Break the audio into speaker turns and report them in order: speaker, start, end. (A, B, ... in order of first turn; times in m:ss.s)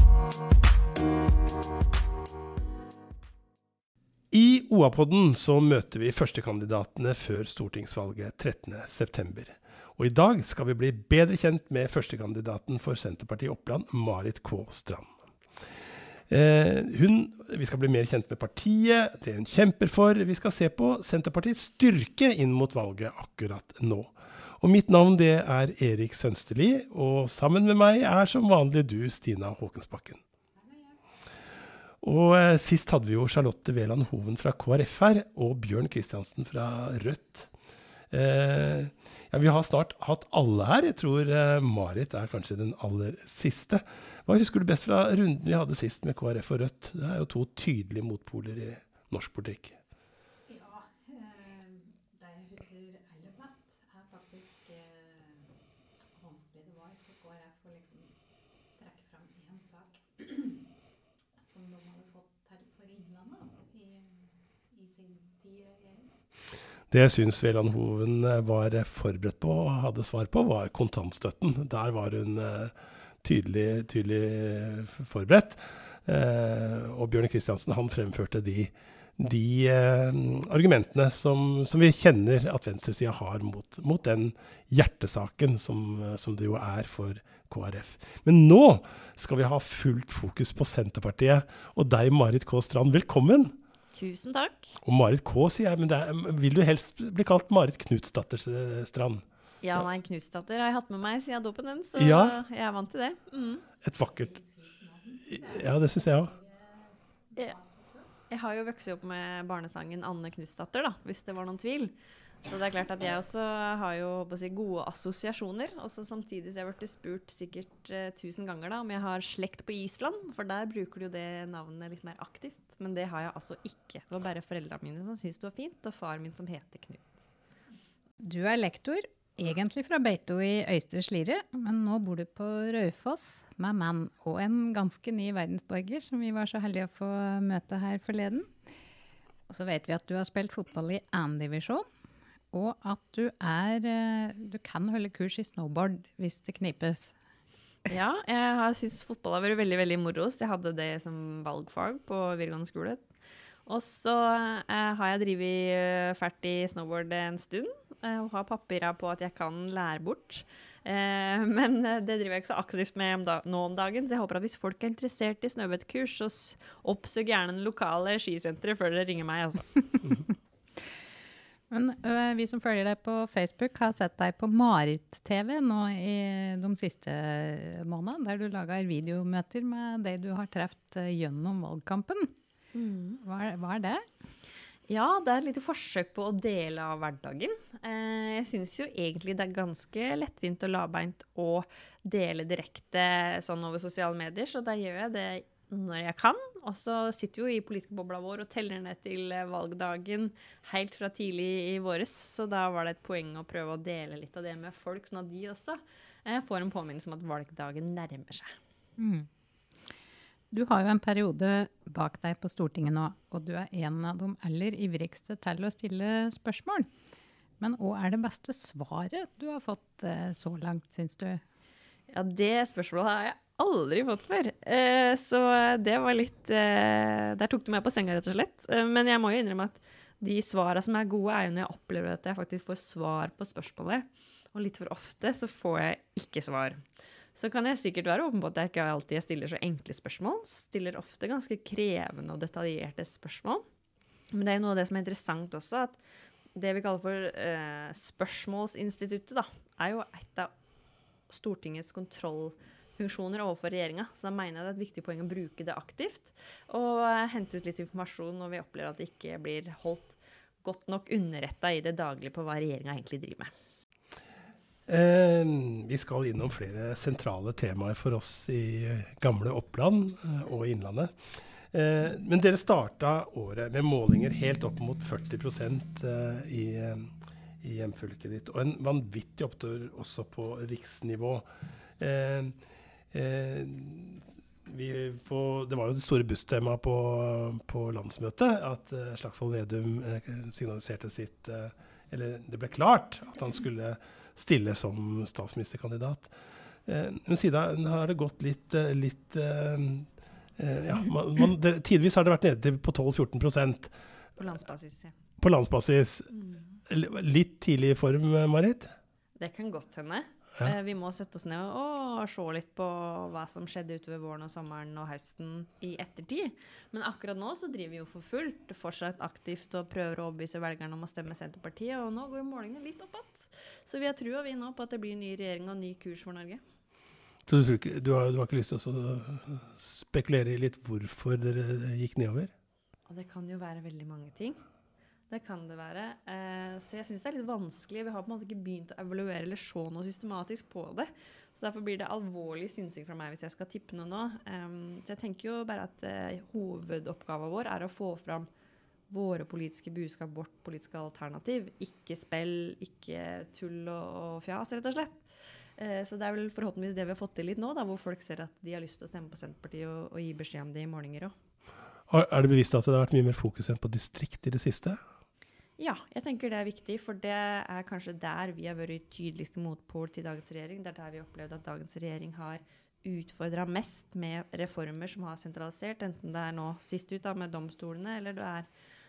0:04.3-0:15.1 A
0:16.3-0:30.2 A
0:30.7-0:31.0 B
0:32.0-0:37.5 A
0:38.1-0:49.8 A
0:50.5-0:55.5 B
0:56.2-0:58.1 B
0:58.8-1:00.6 B
1:01.4-1:06.1 B
1:06.9-1:33.6 A
1:33.9-1:34.8 C
1:34.8-1:39.2 A
1:39.6-1:43.6 C
1:42.0-1:42.4 A
1:43.8-1:44.4 A
1:44.3-1:48.1 B
1:45.2-1:46.4 A
1:48.3-2:07.1 C
2:08.2-2:18.5 B
2:19.5-2:21.9 B
2:22.5-2:27.2 B
2:27.9-2:33.0 C
2:33.7-2:50.0 C
2:51.7-3:02.3 B
3:02.7-3:03.2 C
3:03.2-3:04.1 B
3:04.9-3:28.6 C
3:29.0-3:29.3 B
3:30.5-3:36.9 B
3:37.6-3:41.4 B
3:42.1-3:56.8 C
3:57.4-4:03.6 C
4:04.3-4:06.0 C
4:06.6-4:10.5 C
4:11.3-4:23.5 C
4:24.9-4:31.1 A
4:31.7-4:41.5 A
4:42.0-4:42.6 A
4:43.1-4:56.3 A
4:56.9-5:03.9 A
5:04.4-5:05.2 C
5:05.4-5:06.3 A
5:06.3-5:06.8 C
5:06.8-5:09.0 A
5:09.4-5:26.6 C
5:27.5-5:32.5 A
5:33.1-5:34.6 C
5:35.3-5:48.5 C
5:49.1-5:55.2 C
5:55.8-6:01.4 C
6:02.1-6:05.0 A
6:05.8-6:18.7 C